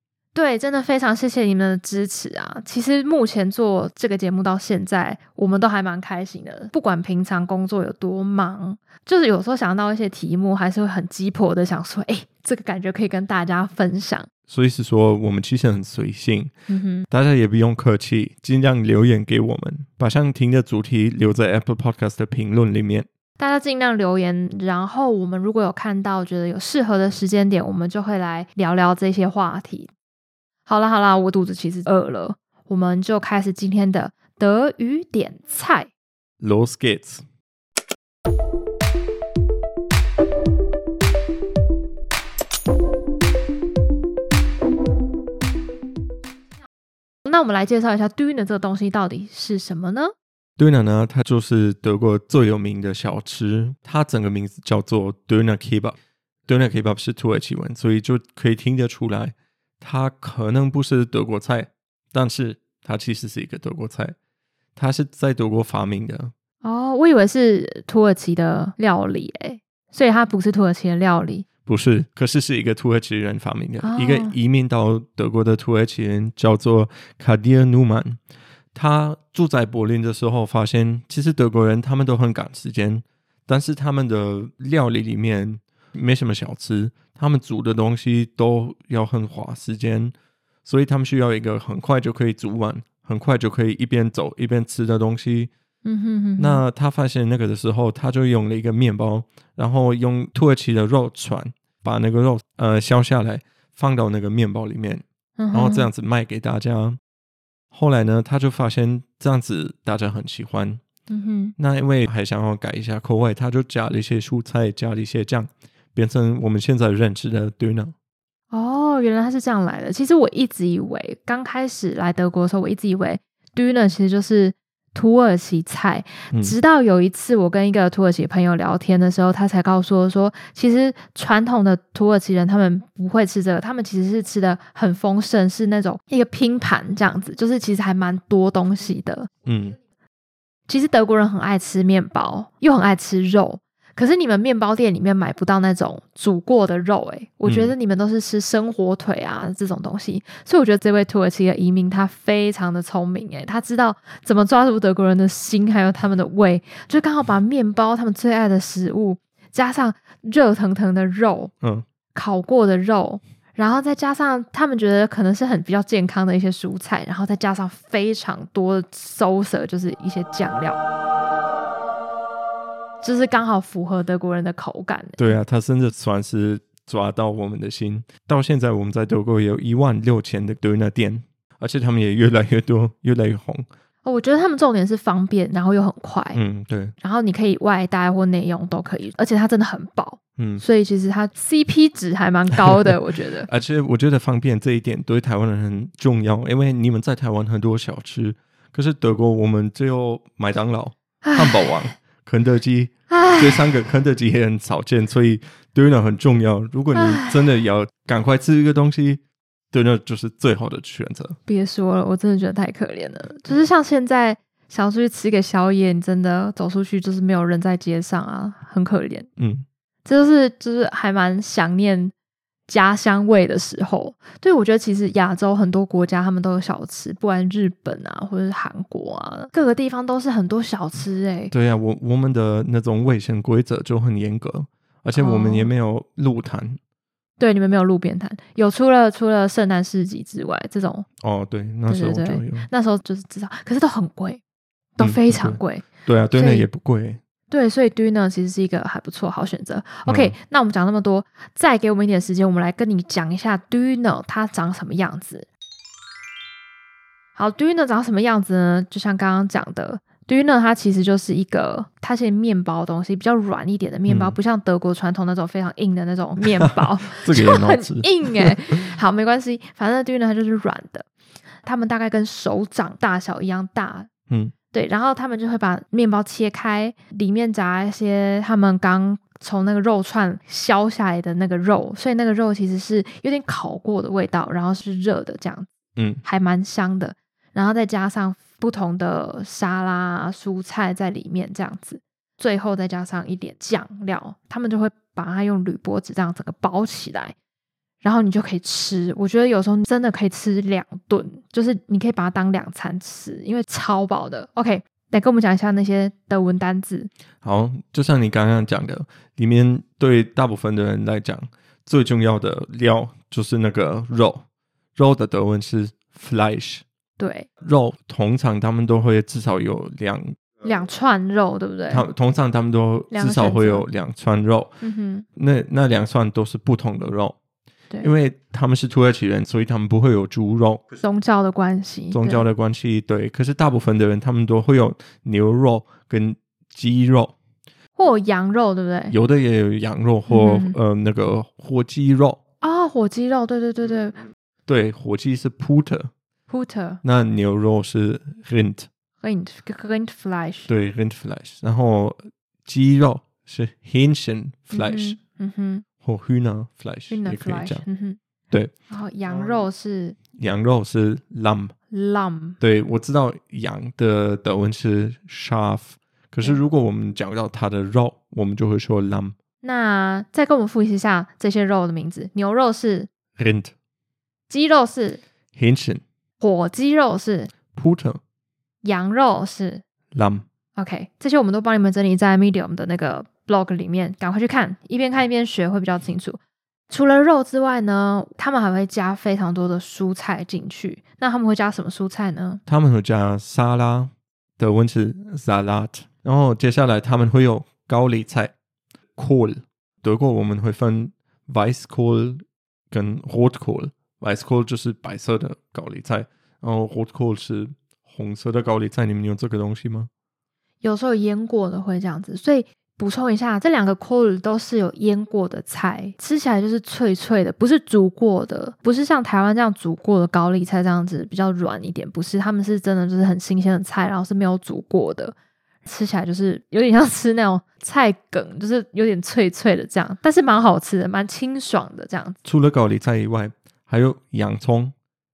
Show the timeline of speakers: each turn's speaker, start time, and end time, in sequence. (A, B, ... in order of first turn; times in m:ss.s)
0:00.3-0:14.3 A
0:14.5-0:16.5 B
0:16.7-0:17.1 A
0:17.1-0:23.1 B
0:23.4-0:29.9 A
0:30.7-0:35.9 A
0:36.4-0:37.2 B
0:47.2-0:50.1 A
0:50.6-1:04.1 B
1:04.8-1:06.3 B
1:06.6-1:11.4 A
1:11.6-1:18.2 B
1:13.8-1:14.3 A
1:18.7-1:30.1 B
1:30.6-1:35.5 B
1:35.8-1:36.6 A
1:36.4-1:47.0 B
1:45.4-1:45.9 A
1:47.7-1:50.8 B
1:51.1-1:51.5 A
1:51.6-1:57.9 B
1:58.5-2:19.3 A
2:06.3-2:06.6 B
2:19.4-2:19.8 B
2:20.7-2:41.5 A
2:27.4-2:27.7 B
2:41.6-2:41.8 B
2:42.1-2:50.8 A
2:53.0-2:55.4 A
2:55.2-3:03.6 B
3:04.0-3:06.4 A
3:06.3-3:06.9 B
3:07.0-3:13.5 A
3:10.4-3:10.6 B
3:13.4-3:31.4 B
3:21.2-3:21.8 A
3:23.1-3:23.6 A
3:26.9-3:27.4 A
3:31.5-3:39.3 A
3:39.4-3:39.6 B
3:40.0-3:42.1 A
3:42.7-3:51.5 A
3:51.5-3:56.8 B
3:55.2-3:55.7 A
3:57.4-4:01.1 A
4:01.2-4:02.7 B
4:01.9-4:04.4 A
4:05.0-4:06.7 A
4:05.0-4:07.2 B
4:07.5-4:15.5 A
4:10.0-4:10.3 B
4:17.4-4:31.1 A
4:24.1-4:24.4 B
4:26.4-4:28.8 B
4:31.6-4:34.1 A
4:34.7-4:45.7 A
4:46.0-4:46.2 B
4:46.2-4:57.3 A
4:58.0-5:07.1 A
5:07.4-5:14.4 B
5:14.9-5:16.8 B
5:17.2-5:17.5 A
5:17.6-5:20.4 B
5:20.6-5:22.1 A
5:21.9-5:24.7 B
5:23.1-5:23.8 A
5:24.8-5:25.2 A
5:25.4-5:27.4 B
5:28.0-5:30.8 B
5:31.0-5:32.4 A
5:32.1-5:37.4 B
5:38.0-5:39.1 A
5:39.1-5:42.4 B
5:40.3-5:40.8 A
5:42.6-5:44.2 A
5:44.7-5:46.1 B
5:46.5-5:47.0 A
5:47.0-5:48.9 B
5:49.2-5:50.7 A
5:50.7-5:55.2 B
5:54.7-5:55.8 A
5:56.0-5:57.8 B
5:57.1-5:58.2 A
5:58.9-6:00.2 A
6:00.3-6:01.7 B
6:01.9-6:02.6 A
6:02.6-6:09.3 B
6:09.6-6:13.1 A
6:13.4-6:13.7 B
6:14.5-6:15.2 A
6:15.5-6:16.0 B
6:16.4-6:17.5 A
6:17.7-6:18.2 B
6:18.8-6:19.8 A
6:20.1-6:20.4 B
6:20.8-6:32.6 A
6:32.7-6:38.5 B
6:39.2-6:50.1 B
6:50.8-7:12.4 A
7:12.4-7:14.9 B